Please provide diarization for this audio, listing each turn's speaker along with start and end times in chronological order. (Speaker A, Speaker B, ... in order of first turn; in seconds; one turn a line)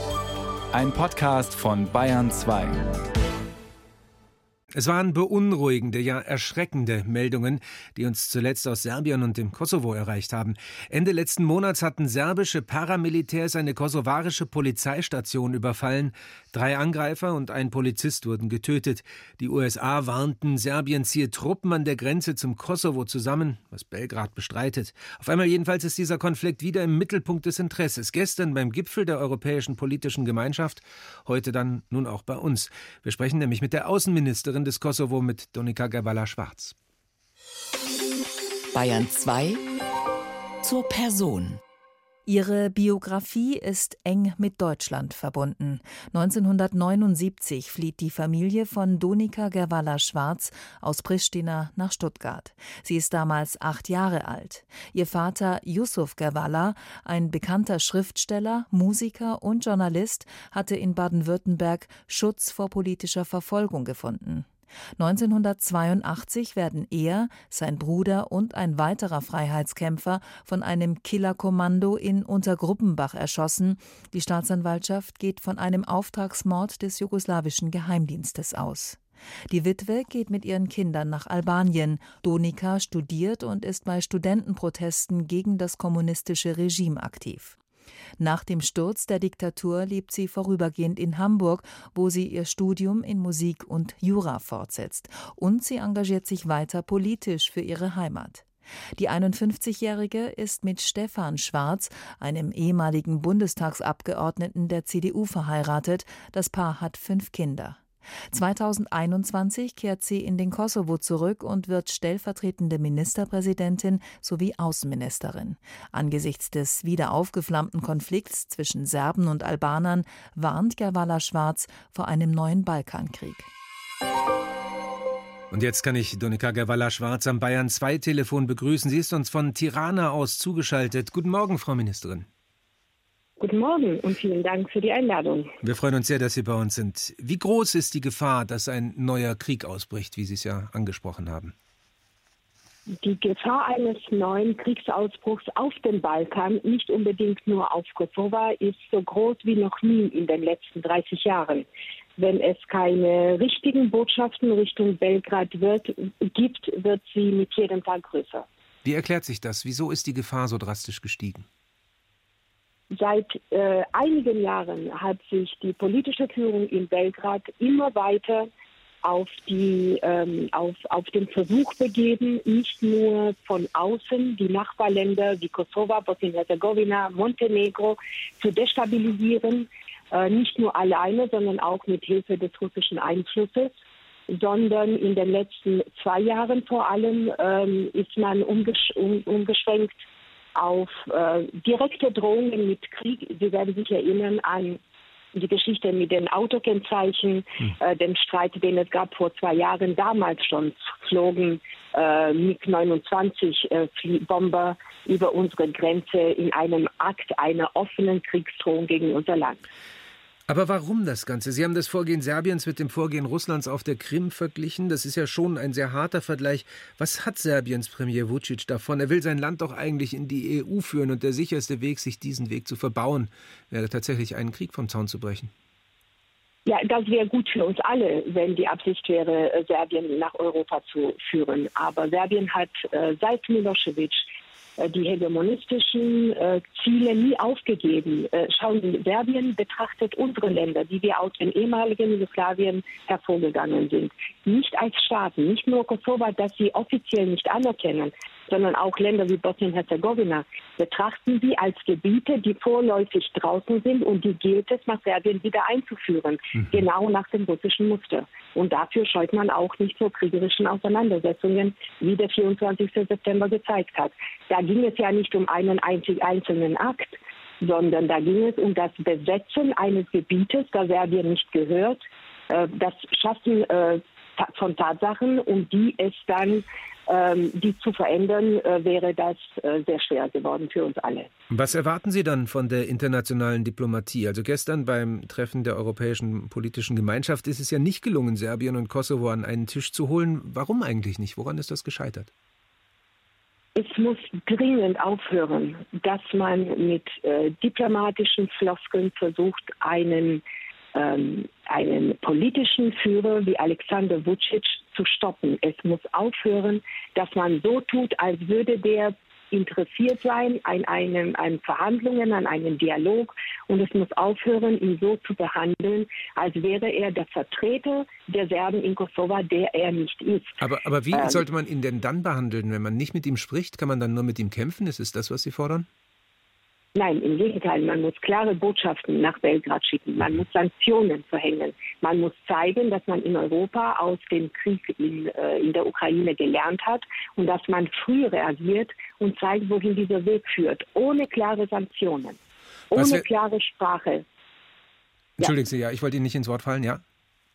Speaker A: 0.7-2.8
Speaker B: 4.8-36.8
Speaker C: 38.7-39.6
Speaker C: 40.6-41.6
Speaker D: 42.3-87.6
Speaker D: 88.2-98.5
Speaker D: 99.0-107.8
Speaker D: 108.3-123.5
Speaker B: 125.5-132.3
Speaker E: 133.4-135.5
Speaker B: 135.6-141.5
Speaker E: 143.0-151.7
Speaker E: 152.2-158.5
Speaker B: 158.8-161.4
Speaker E: 162.9-168.5
Speaker E: 169.0-183.8
Speaker E: 184.3-190.0
Speaker E: 190.6-194.8
Speaker E: 195.3-209.7
Speaker B: 210.5-225.5
Speaker E: 226.7-281.3
Speaker B: 281.5-292.3
Speaker E: 293.8-300.4
Speaker E: 300.9-320.6
Speaker B: 320.6-325.9
Speaker E: 321.1-321.4
Speaker E: 326.9-342.4
Speaker E: 342.9-344.2
Speaker B: 342.9-343.2
Speaker B: 345.4-347.0